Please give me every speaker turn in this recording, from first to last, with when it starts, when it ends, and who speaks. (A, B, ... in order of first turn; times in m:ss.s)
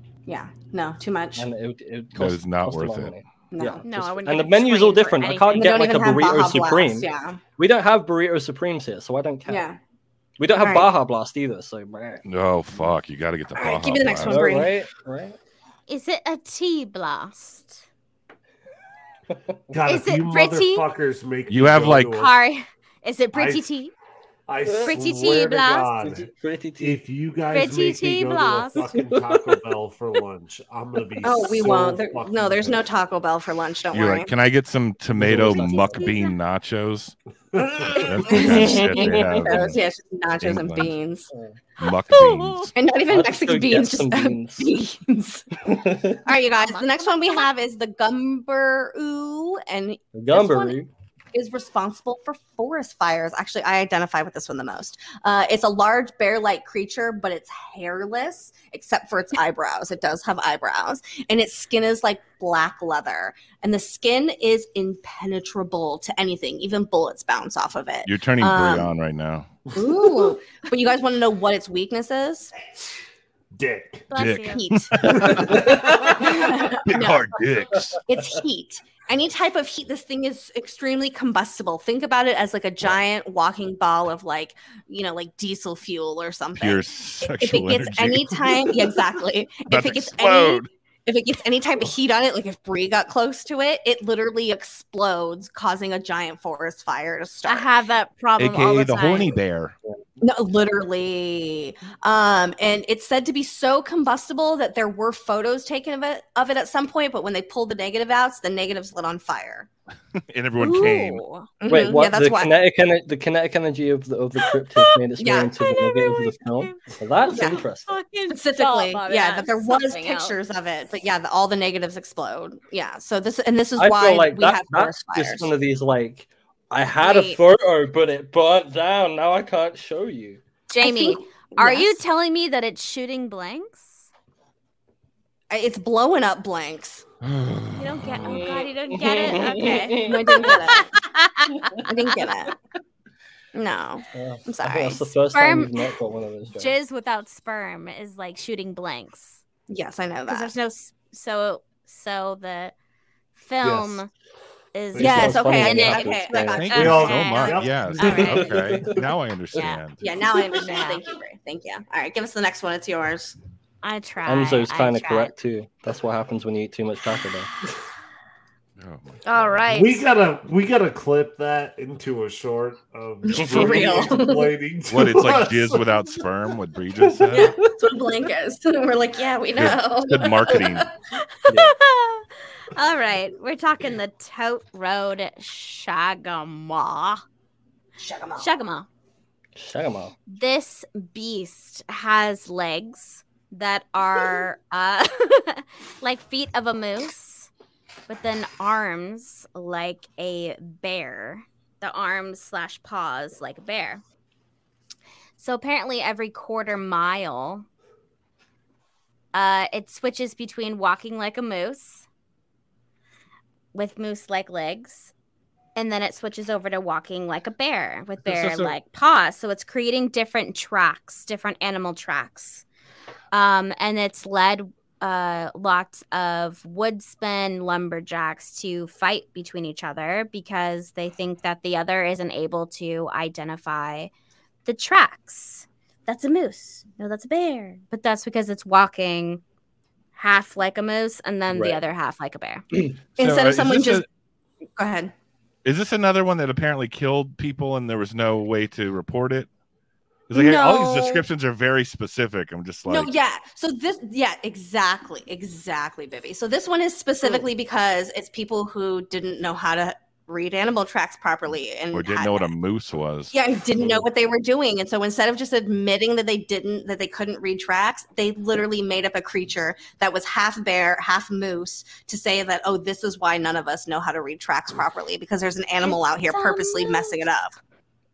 0:00.2-0:01.5 A
0:01.4-0:09.6 B
0:02.1-0:03.1 C
0:03.5-0:03.8 A
0:03.8-0:05.8 D
0:05.5-0:07.4 A
0:09.4-0:09.8 A
0:10.4-0:12.2 B
0:10.6-0:10.9 A
0:12.2-0:14.4 C
0:13.6-0:14.8 A
0:14.2-0:15.4 B
0:15.9-0:17.8 D
0:19.7-0:22.3 E
0:19.8-0:20.8 D
0:21.5-0:22.2 C
0:22.1-0:23.9 D
0:23.3-0:23.6 E
0:24.5-0:32.8 E
0:24.6-0:25.4 B
0:24.8-0:25.9 D
0:26.0-0:27.0 B
0:27.5-0:28.8 D
0:28.9-0:29.6 B
0:31.2-0:34.3 A
0:33.9-0:37.2 C
0:35.2-0:36.1 B
0:37.5-0:38.2 E
0:37.9-0:41.3 A
0:37.9-0:39.8 C
0:38.2-0:39.6 B
0:40.4-0:40.9 C
0:41.3-0:41.6 B
0:41.8-0:42.7 C
0:42.1-0:42.7 D
0:42.7-0:45.7 A
0:43.1-0:44.7 B
0:45.6-0:46.2 B
0:46.2-0:50.7 A
0:46.7-0:47.4 D
0:50.1-0:50.9 B
0:51.3-1:08.9 A
1:08.0-1:09.5 C
1:09.7-1:12.5 A
1:13.5-1:14.1 E
1:14.1-1:14.6 D
1:14.1-1:18.0 C
1:14.4-1:17.3 A
1:15.0-1:16.3 E
1:15.4-1:15.8 B
1:18.0-1:37.7 A
1:26.6-1:28.8 C
1:29.6-1:30.6 C
1:37.4-1:39.3 D
1:38.4-1:39.7 C
1:40.2-1:49.7 A
1:50.3-1:51.2 C
1:50.6-1:52.5 A
1:50.6-1:51.5 D
1:51.6-1:57.9 B
1:55.2-1:55.7 A
1:55.6-1:56.8 D
1:57.3-2:00.4 D
1:57.3-1:57.6 A
1:58.3-2:05.5 A
2:03.8-2:10.4 B
2:07.0-2:07.4 A
2:10.7-2:14.1 D
2:10.8-2:12.0 A
2:15.5-2:17.0 A
2:17.3-2:18.1 C
2:17.7-2:21.9 D
2:18.2-2:20.5 B
2:19.6-2:20.9 A
2:21.8-2:22.5 A
2:23.5-2:25.1 A
2:24.1-2:26.7 B
2:25.3-2:25.8 D
2:26.6-2:29.4 D
2:29.7-2:30.5 A
2:30.3-2:32.7 D
2:33.3-2:34.1 D
2:33.6-2:34.0 E
2:34.7-2:38.4 D
2:35.0-2:36.9 B
2:35.0-2:38.6 A
2:36.4-2:40.1 C
2:36.7-2:38.3 E
2:38.0-2:39.1 B
2:39.5-2:39.8 D
2:39.6-2:43.4 A
2:40.5-2:41.0 D
2:43.8-2:45.3 D
2:44.2-2:47.5 B
2:48.8-2:49.4 C
2:49.2-2:50.0 D
2:49.7-2:55.8 E
2:53.2-2:54.5 A
2:53.4-2:53.9 B
2:54.9-2:57.5 C
2:57.1-2:57.8 B
2:57.3-3:00.9 A
2:59.5-3:00.9 C
3:01.5-3:01.7 B
3:01.5-3:07.2 D
3:08.0-3:08.5 A
3:08.4-3:08.9 D
3:09.6-3:10.1 B
3:10.3-3:17.5 D
3:18.1-3:24.0 D
3:25.4-3:27.6 D
3:29.3-3:32.0 D
3:33.7-3:35.1 D
3:35.8-3:42.6 D
3:38.2-3:38.7 C
3:43.3-3:54.1 D
3:54.6-3:59.4 D
4:00.2-4:02.6 D
4:01.5-4:01.8 B
4:03.2-4:04.0 C
4:03.2-4:04.0 A
4:04.8-4:05.1 A
4:05.6-4:09.5 C
4:10.3-4:13.1 C
4:10.3-4:11.2 A
4:12.9-4:22.5 A
4:21.9-4:23.3 C
4:23.3-4:37.5 A
4:35.8-4:37.2 D